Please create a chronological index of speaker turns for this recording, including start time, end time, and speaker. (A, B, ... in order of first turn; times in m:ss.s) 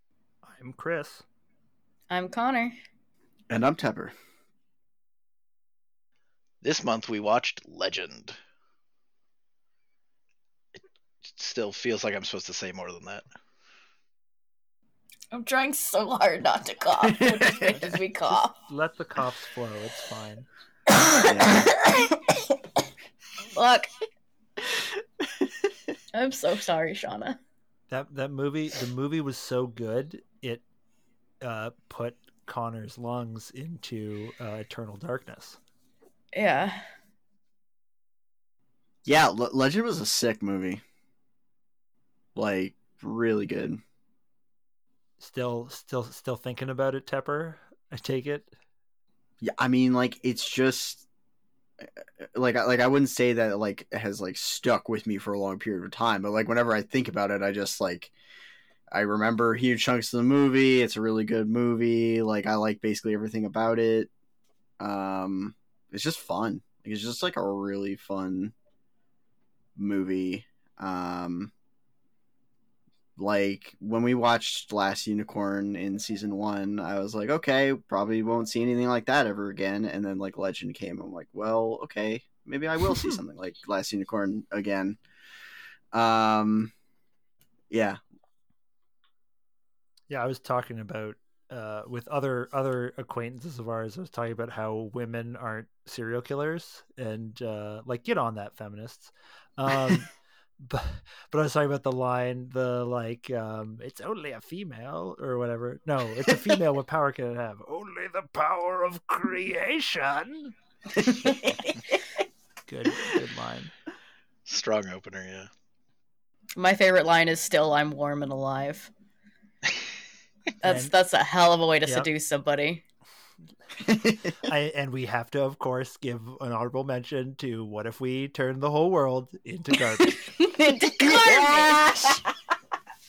0:00.4-0:01.2 A
0:02.1-0:02.8 B
0:03.5-0:04.2 C
0:06.6-0:08.4 D
0:10.8-0:13.2 D
0:15.3-0:18.6 B
0:17.8-0:20.5 A
0:20.9-0:22.6 B
0:21.2-0:21.7 C
0:23.5-0:23.9 B
0:26.1-0:27.4 B
0:27.9-0:30.6 A
0:31.4-0:35.6 A
0:36.3-0:36.8 B
0:39.1-0:40.8 C
0:42.4-0:43.8 C
0:45.2-0:48.5 A
0:49.4-0:51.0 C
0:51.8-0:58.1 C
0:58.9-1:04.1 C
1:04.8-1:08.5 C
1:09.8-1:11.5 C
1:13.2-1:25.0 C
1:25.9-1:26.7 C
1:27.7-1:28.0 C
1:30.1-1:50.6 A
1:52.7-1:53.7 A
1:54.5-1:55.5 D
1:56.6-1:58.9 B
2:00.6-2:02.8 B
2:00.6-2:00.9 A
2:03.8-2:04.3 C
2:04.4-2:10.4 A
2:10.1-2:12.2 B
2:10.7-2:12.3 C